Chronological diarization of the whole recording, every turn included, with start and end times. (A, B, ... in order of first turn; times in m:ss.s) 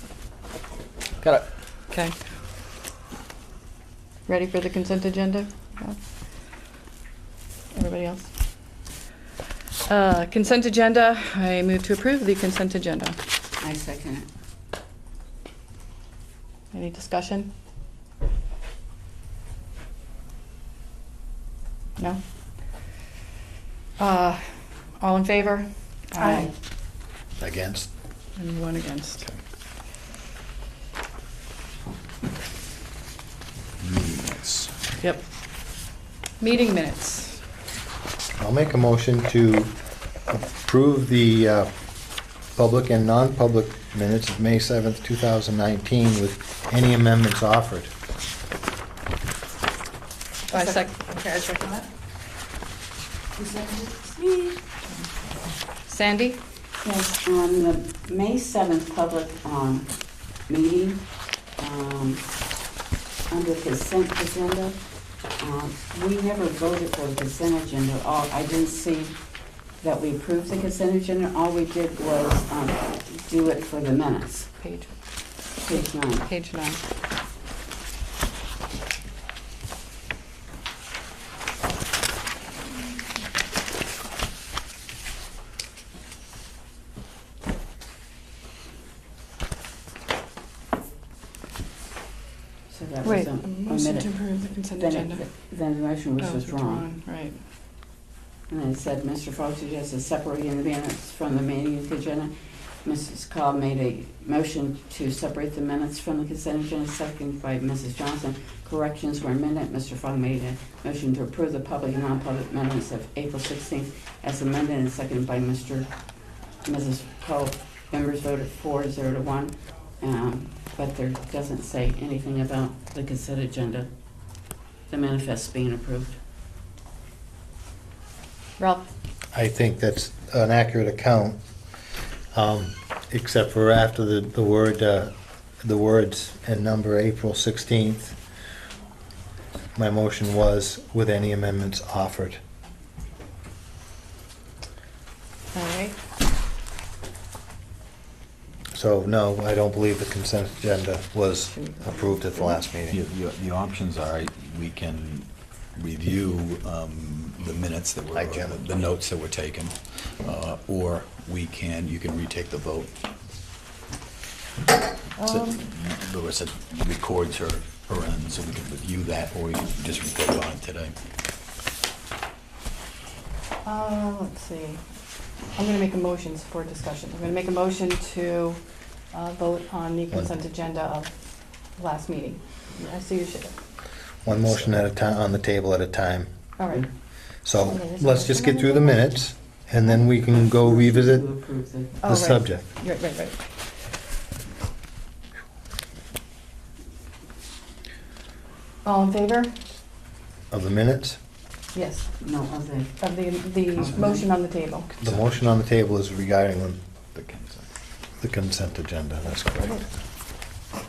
0:01.9-0:02.1 A
0:04.3-0:06.0 A
0:07.7-0:08.3 A
0:09.9-0:13.2 A
0:13.6-0:14.3 B
0:16.7-0:17.5 A
0:24.0-0:24.5 A
0:25.0-0:26.5 A
0:26.1-0:26.5 B
0:27.4-0:27.9 C
0:28.4-0:29.2 A
0:33.8-0:34.7 D
0:36.4-0:37.4 A
0:38.4-0:39.7 C
0:40.3-0:41.7 C
0:42.5-0:47.9 C
0:50.5-0:51.0 A
0:50.5-0:51.7 B
0:53.4-0:54.6 B
0:55.8-0:56.4 A
0:56.8-1:02.6 B
1:03.3-1:14.5 B
1:14.6-1:15.0 A
1:15.6-1:16.3 B
1:16.1-1:16.8 A
1:32.7-1:36.9 B
1:33.0-1:35.2 A
1:36.2-1:37.4 A
1:38.5-2:03.9 B
2:04.9-2:06.2 B
2:08.6-2:08.9 A
2:09.3-2:11.4 C
2:12.3-2:18.2 C
2:19.8-2:22.4 C
2:25.5-2:26.0 A
2:28.7-2:33.0 C
2:31.5-2:32.6 A
2:32.9-2:42.9 D
2:38.1-2:38.6 C
2:45.2-2:45.6 A
2:45.2-2:50.9 D
2:53.6-2:54.8 A
2:55.5-2:58.6 A
2:59.1-3:01.1 A
3:01.8-3:03.5 A
3:04.2-3:06.3 C
3:06.6-3:06.8 A
3:07.4-3:11.2 C
3:07.8-3:08.9 A
3:10.2-3:12.0 B
3:12.0-3:13.3 A
3:12.0-3:12.7 C
3:18.8-3:19.6 A
3:20.5-3:21.2 C
3:21.7-3:22.1 A
3:22.2-3:23.1 B
3:23.0-3:24.9 A
3:23.8-3:24.3 B
3:25.0-3:26.8 C
3:27.1-3:27.7 D
3:28.2-3:29.9 C